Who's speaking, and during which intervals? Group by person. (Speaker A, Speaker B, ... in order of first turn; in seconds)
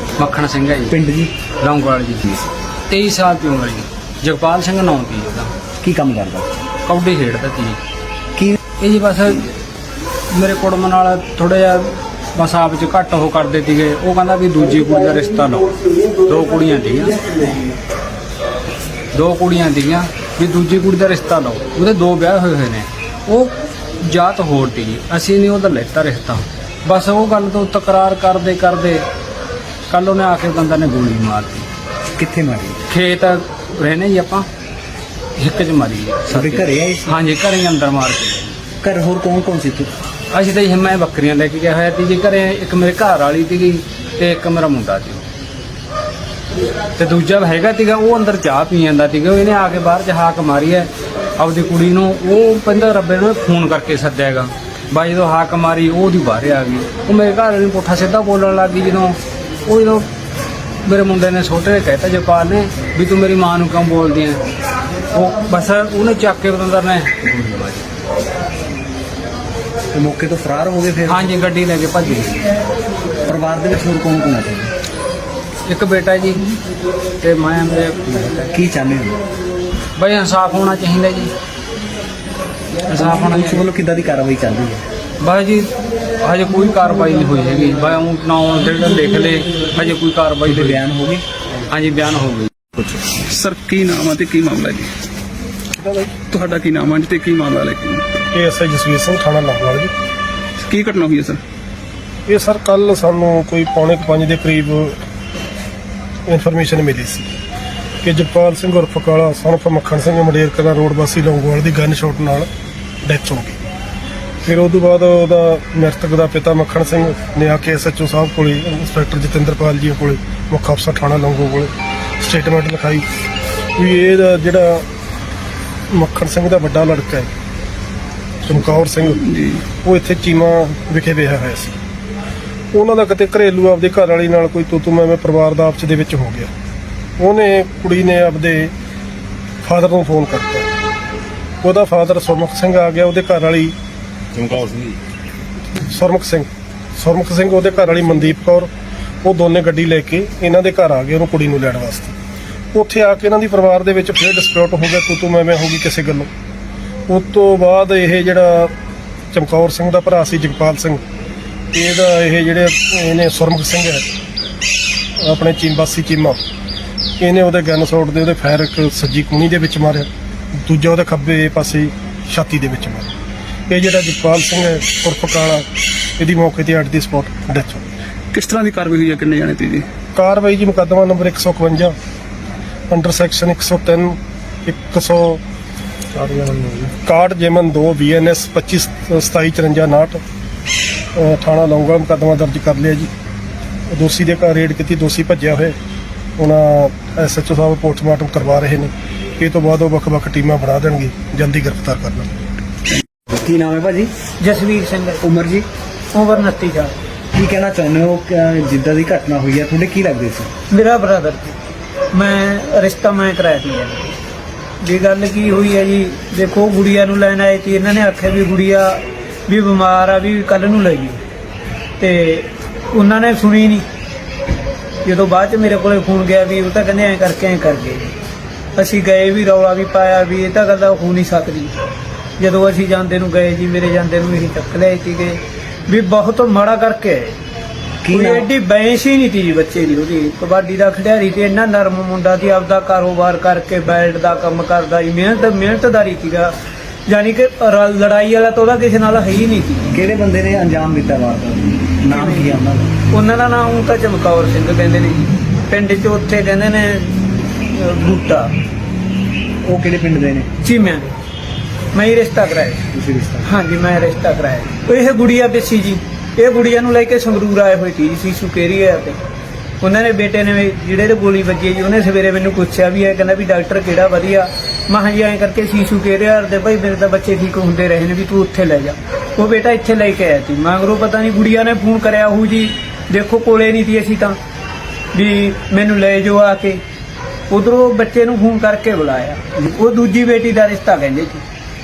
Speaker A: 0.2-1.0, 1.6-2.3, 2.9-5.5, 6.9-7.8, 8.8-9.5, 10.3-17.5, 19.1-29.1, 29.9-31.7, 32.9-34.5, 35.4-38.6, 40.3-45.3, 47.0-60.1, 60.8-64.4, 65.1-67.8, 71.1-72.5, 75.7-76.5, 77.2-78.1, 80.0-81.3, 82.8-83.7, 85.2-90.8, 91.7-92.7
Speaker B: 0.9-1.3, 5.8-6.6, 32.2-32.8, 36.3-37.1, 38.8-39.9, 69.9-71.3, 73.3-74.7, 78.1-79.2, 82.9-84.8, 90.5-91.2, 203.3-204.1, 205.2-205.7, 207.3-210.5, 238.1-238.5, 249.9-252.9, 259.6-260.5, 262.9-263.5
Speaker C: 93.2-94.9, 96.3-98.1, 100.6-101.4, 129.2-129.6, 178.3-179.8
Speaker D: 95.8-96.2, 98.3-99.9, 102.3-105.0, 106.3-107.3, 108.0-112.5, 113.0-113.6, 114.5-123.0, 123.8-124.8, 125.9-127.3, 128.4-129.2, 129.8-131.8, 132.7-136.5, 137.2-138.7, 139.6-140.7, 141.6-143.7, 144.4-144.7, 145.8-148.7, 149.2-152.2, 152.7-156.3, 157.1-158.7, 159.3-161.0, 161.7-164.1, 165.2-166.4, 167.2-170.1, 170.6-173.1, 173.7-175.7, 176.2-177.9, 180.2-181.9, 182.9-185.4, 186.2-190.2, 191.2-193.1, 193.9-195.8, 196.4-202.3
Speaker E: 204.4-205.2, 206.1-207.0, 210.7-211.6, 212.1-214.2, 214.8-221.2, 222.0-223.8, 225.1-228.1, 228.8-231.7, 232.4-237.4, 238.1-246.6, 247.1-249.9, 252.1-257.2, 257.7-258.5, 260.6-261.2, 261.9-262.9, 263.4-269.2, 269.8-284.4, 285.1-286.8, 287.5-291.4